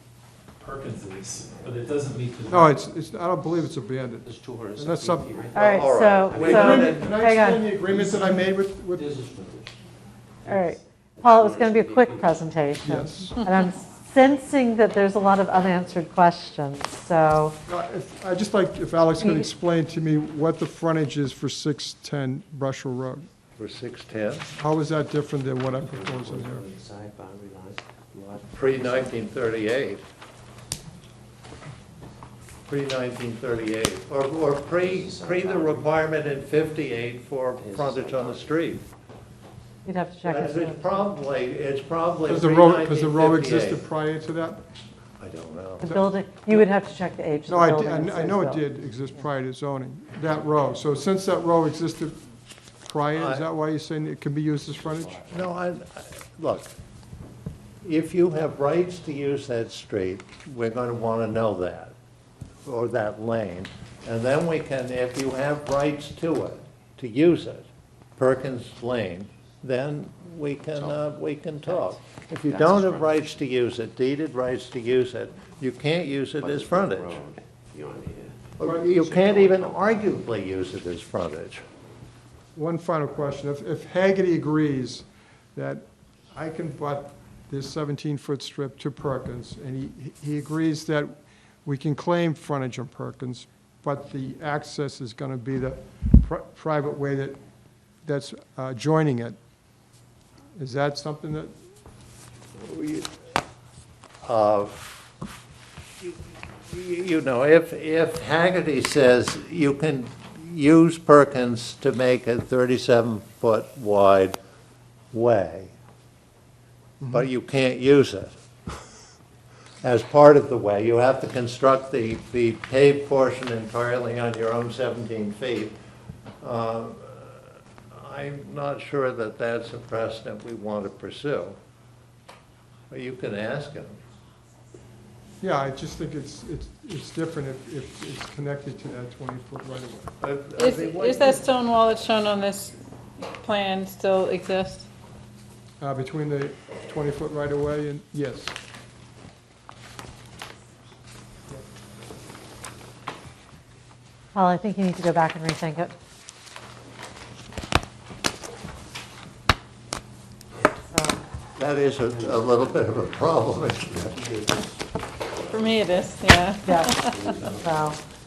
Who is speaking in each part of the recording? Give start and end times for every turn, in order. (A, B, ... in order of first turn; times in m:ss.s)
0:00.6-0:02.7 A
0:02.5-0:04.2 B
0:04.2-0:06.6 C
0:04.8-0:05.3 B
0:05.5-0:07.0 D
0:05.5-0:07.8 E
0:06.3-0:09.1 B
0:09.2-0:09.5 A
0:09.3-0:09.7 C
0:10.4-0:17.6 E
0:11.2-0:12.4 C
0:12.8-0:13.4 B
0:17.7-0:23.2 B
0:19.2-0:19.5 E
0:23.6-0:24.5 D
0:24.6-0:26.6 B
0:25.7-0:29.2 C
0:28.5-0:30.0 D
0:32.7-0:38.8 D
0:34.7-0:35.9 C
0:37.5-0:38.6 C
0:39.8-0:41.1 E
0:40.2-0:43.8 D
0:42.2-0:44.6 B
0:45.2-0:45.8 D
0:45.8-0:48.7 E
0:45.8-0:46.7 B
0:47.5-0:52.2 B
0:52.8-0:55.3 B
0:53.2-0:53.4 D
0:55.2-0:56.7 D
0:57.8-1:01.9 D
1:02.6-1:07.7 D
1:08.2-1:17.2 D
1:10.7-1:11.0 C
1:12.5-1:13.1 C
1:16.4-1:20.0 C
1:18.6-1:21.6 D
1:22.6-1:37.4 B
1:38.0-1:39.4 B
1:40.6-1:41.5 B
1:42.6-1:43.1 D
1:44.2-1:44.8 D
1:46.7-1:54.4 D
1:55.1-1:55.7 D
1:57.0-1:57.3 B
1:57.1-1:58.3 D
1:59.8-2:05.8 D
2:06.4-2:11.6 D
2:12.9-2:14.0 D
2:15.4-2:20.2 B
2:20.2-2:21.5 D
2:20.6-2:24.8 F
2:25.8-2:28.5 B
2:34.3-2:35.9 E
2:40.9-2:41.2 E
2:41.6-2:44.2 D
2:42.0-2:44.8 C
2:45.4-2:46.1 C
2:45.5-2:47.3 F
2:46.6-2:48.0 E
2:47.0-2:47.7 C